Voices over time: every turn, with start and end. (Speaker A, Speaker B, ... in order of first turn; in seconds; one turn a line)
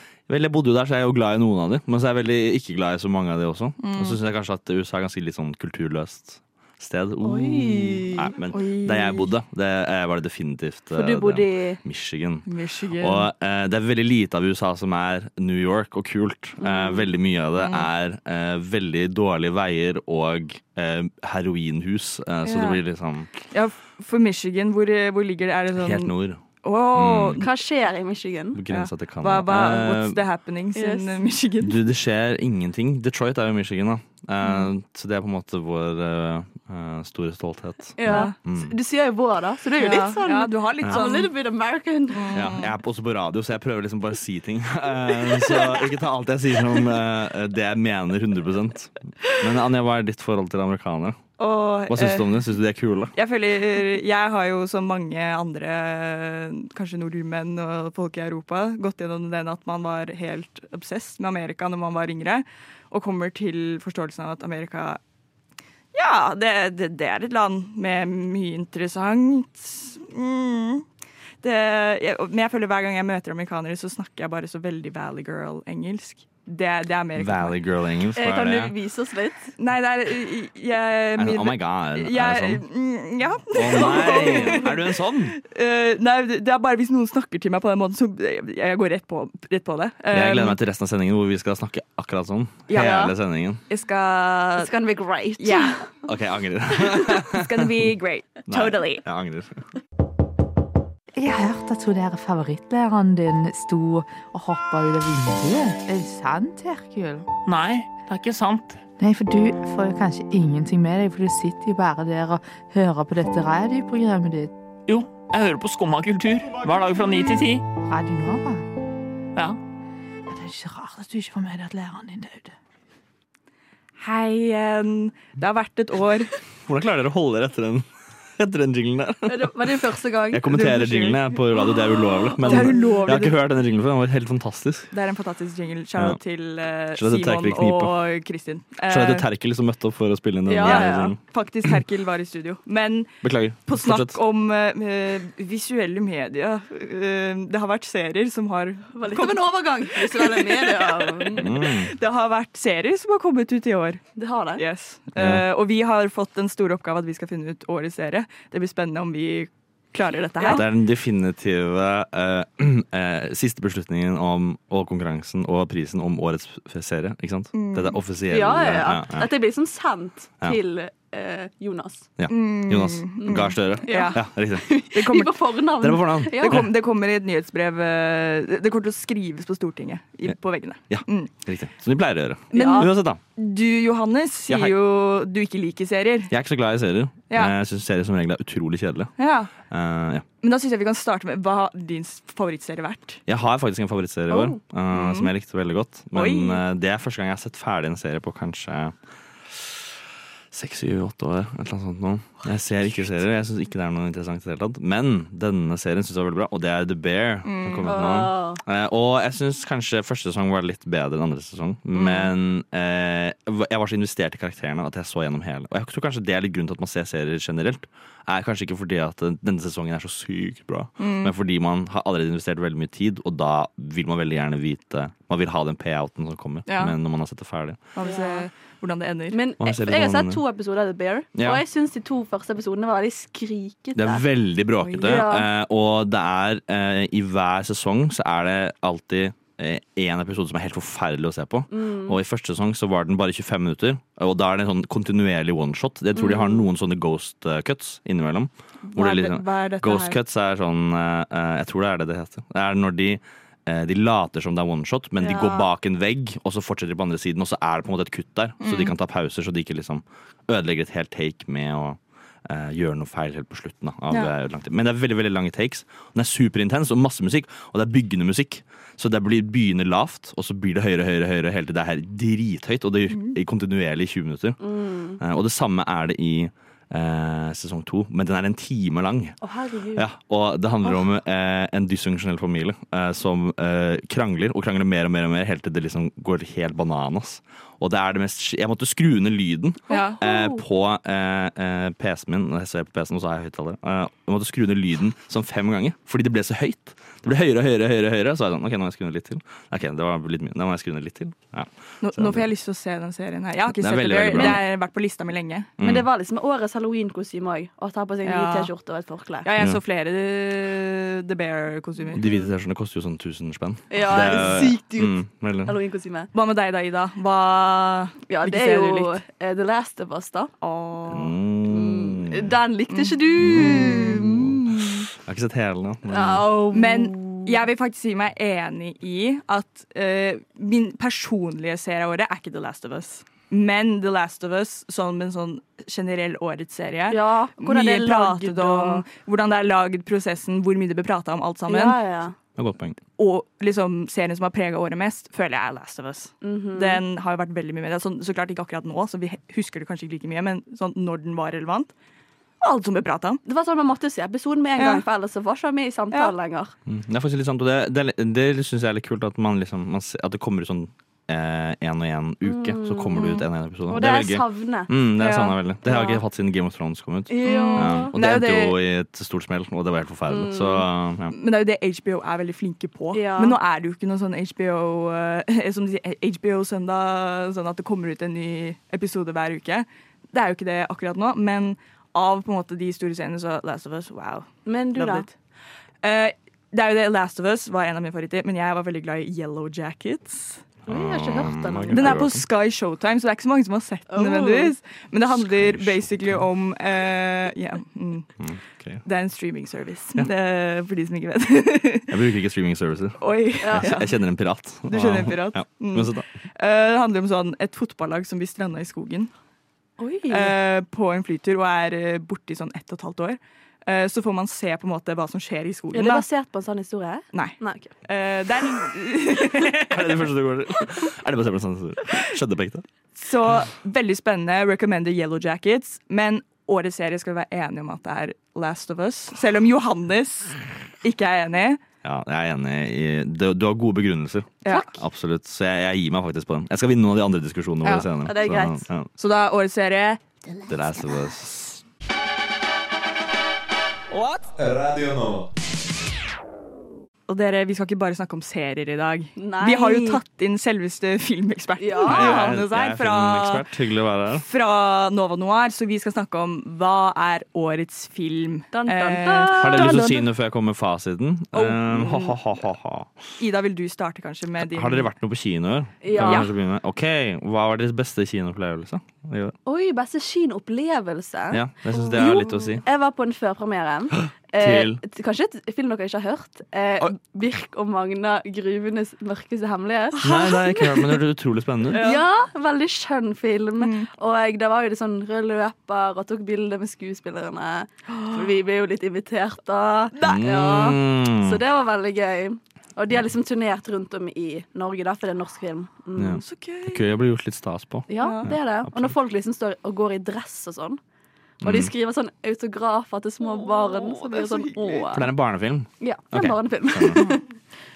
Speaker A: 0.3-12.5
Speaker B: 3.8-4.2
Speaker C: 7.2-8.3
Speaker B: 8.5-9.3
Speaker C: 10.9-11.8
Speaker B: 12.5-13.3
Speaker A: 13.0-23.3
Speaker C: 16.6-17.0
Speaker B: 17.6-17.9
Speaker B: 22.4-22.8
Speaker B: 23.4-27.5
Speaker A: 25.8-27.5
Speaker C: 27.4-28.6
Speaker A: 28.5-30.2
Speaker B: 28.7-31.8
Speaker C: 30.8-31.2
Speaker A: 31.6-38.7
Speaker C: 38.0-42.6
Speaker B: 38.0-38.4
Speaker B: 39.8-41.3
Speaker A: 40.8-41.1
Speaker B: 42.1-42.7
Speaker A: 42.3-51.2
Speaker B: 51.4-52.3
Speaker A: 51.9-53.1
Speaker B: 53.1-65.0
Speaker B: 65.9-70.8
Speaker B: 71.4-77.6
Speaker A: 77.2-78.7
Speaker C: 78.2-79.5
Speaker B: 79.6-90.6
Speaker A: 81.2-82.6
Speaker A: 83.5-85.4
Speaker C: 84.1-84.4
Speaker A: 90.1-93.6
Speaker B: 92.7-93.1
Speaker C: 92.7-93.0
Speaker B: 93.7-94.7
Speaker C: 94.6-95.9
Speaker B: 95.4-95.8
Speaker A: 96.1-97.9
Speaker B: 96.8-99.0
Speaker A: 98.5-99.6
Speaker D: 101.2-107.3
Speaker E: 107.5-108.8
Speaker D: 109.0-114.5
Speaker E: 114.9-117.7
Speaker D: 117.8-118.7
Speaker D: 120.3-122.5
Speaker B: 124.0-126.3
Speaker A: 126.7-127.8
Speaker A: 128.4-129.8
Speaker C: 129.3-130.4
Speaker A: 130.3-134.9
Speaker B: 130.5-131.4
Speaker B: 132.4-133.4
Speaker C: 132.4-133.1
Speaker B: 134.9-139.3
Speaker A: 137.0-137.9
Speaker A: 138.9-141.8
Speaker C: 140.5-141.1
Speaker B: 140.6-143.1
Speaker A: 143.2-144.2
Speaker B: 143.7-154.0
Speaker C: 148.9-151.5
Speaker A: 151.4-151.9
Speaker C: 154.2-154.6
Speaker B: 154.6-160.7
Speaker A: 155.2-155.5
Speaker A: 160.4-169.3
Speaker B: 167.5-168.0
Speaker C: 168.3-172.1
Speaker A: 172.2-174.7
Speaker B: 172.3-174.2
Speaker C: 173.2-176.6
Speaker B: 174.9-175.4
Speaker A: 175.8-176.7
Speaker B: 176.4-181.3
Speaker A: 180.9-183.2
Speaker B: 182.5-186.3
Speaker C: 182.5-182.9
Speaker A: 184.5-184.8
Speaker A: 186.3-189.1
Speaker B: 189.2-189.5
Speaker A: 189.7-190.3
Speaker B: 190.4-193.2
Speaker A: 193.3-198.9
Speaker C: 194.3-194.6
Speaker B: 194.9-195.3
Speaker B: 196.1-196.6
Speaker A: 199.5-199.8
Speaker A: 200.5-227.8
Speaker B: 207.4-208.0
Speaker C: 207.9-208.6
Speaker B: 212.0-212.3
Speaker B: 221.0-221.3
Speaker B: 226.7-227.0
Speaker B: 227.9-229.4
Speaker C: 228.0-228.5
Speaker C: 229.3-234.3
Speaker A: 229.6-230.4
Speaker A: 231.3-231.6
Speaker A: 234.0-274.6
Speaker B: 234.8-235.2
Speaker C: 235.0-235.5
Speaker C: 241.7-242.2
Speaker C: 246.2-246.7
Speaker B: 248.9-250.2
Speaker C: 255.2-255.7
Speaker B: 258.6-258.9
Speaker B: 273.1-273.4
Speaker C: 274.6-275.2
Speaker A: 275.2-279.4
Speaker C: 279.4-280.1
Speaker A: 279.9-302.5
Speaker B: 289.9-290.5
Speaker C: 289.9-290.3
Speaker B: 302.0-305.7
Speaker A: 303.7-304.6
Speaker A: 305.8-306.1
Speaker C: 305.8-309.5
Speaker B: 308.2-308.7
Speaker B: 309.4-312.2
Speaker C: 312.1-312.5
Speaker A: 312.1-315.8
Speaker C: 313.9-316.3
Speaker B: 314.2-314.5
Speaker B: 316.3-319.2
Speaker C: 318.3-320.5
Speaker B: 320.6-321.4
Speaker A: 321.1-322.6
Speaker C: 321.7-325.1
Speaker B: 322.9-324.1
Speaker A: 323.4-324.6
Speaker A: 325.1-326.5
Speaker C: 326.1-327.5
Speaker B: 326.7-342.0
Speaker C: 337.1-339.1
Speaker C: 341.7-342.4
Speaker A: 342.6-343.0
Speaker B: 343.2-351.9
Speaker C: 346.4-347.0
Speaker B: 352.6-353.4
Speaker C: 353.4-356.7
Speaker B: 354.8-355.0
Speaker A: 356.9-371.4
Speaker C: 362.4-364.9
Speaker B: 365.2-365.6
Speaker C: 365.9-366.2
Speaker C: 367.3-368.1
Speaker B: 367.4-368.8
Speaker C: 370.3-370.9
Speaker B: 371.3-385.3
Speaker C: 373.1-373.6
Speaker C: 384.7-385.3
Speaker B: 386.0-390.6
Speaker C: 390.9-392.2
Speaker A: 390.9-392.4
Speaker B: 391.9-398.3
Speaker C: 394.1-394.7
Speaker A: 395.3-396.4
Speaker A: 398.4-399.0
Speaker B: 399.1-402.2
Speaker A: 402.1-406.2
Speaker B: 403.2-404.2
Speaker C: 403.6-403.9
Speaker B: 404.9-409.3
Speaker C: 410.0-410.6
Speaker B: 410.3-416.3
Speaker C: 415.9-417.9
Speaker B: 417.3-420.3
Speaker A: 419.9-422.9
Speaker B: 423.1-431.8
Speaker A: 432.0-439.1
Speaker B: 434.6-434.9
Speaker B: 437.8-438.1
Speaker C: 438.2-438.8
Speaker B: 439.2-440.2
Speaker A: 440.7-441.8
Speaker B: 444.1-444.5
Speaker B: 447.3-453.7
Speaker C: 449.4-450.2
Speaker C: 451.8-452.6
Speaker A: 452.1-454.4
Speaker B: 454.3-460.1
Speaker C: 458.7-460.3
Speaker A: 459.5-463.1
Speaker B: 461.5-462.4
Speaker B: 463.4-465.1
Speaker A: 464.6-469.6
Speaker C: 466.0-466.5
Speaker B: 466.2-466.5
Speaker C: 469.7-480.8
Speaker A: 471.5-472.8
Speaker B: 472.1-472.6
Speaker A: 474.2-475.0
Speaker B: 480.2-481.0
Speaker A: 480.2-482.1
Speaker B: 481.9-482.2
Speaker C: 481.9-496.4
Speaker B: 483.8-484.1
Speaker B: 488.1-488.5
Speaker B: 490.1-490.4
Speaker A: 490.2-491.6
Speaker A: 496.2-499.1
Speaker B: 496.4-497.1
Speaker C: 498.1-501.0
Speaker B: 498.2-498.5
Speaker A: 501.6-501.9
Speaker C: 501.6-505.3
Speaker B: 503.4-505.1
Speaker A: 505.1-507.3
Speaker C: 506.0-507.4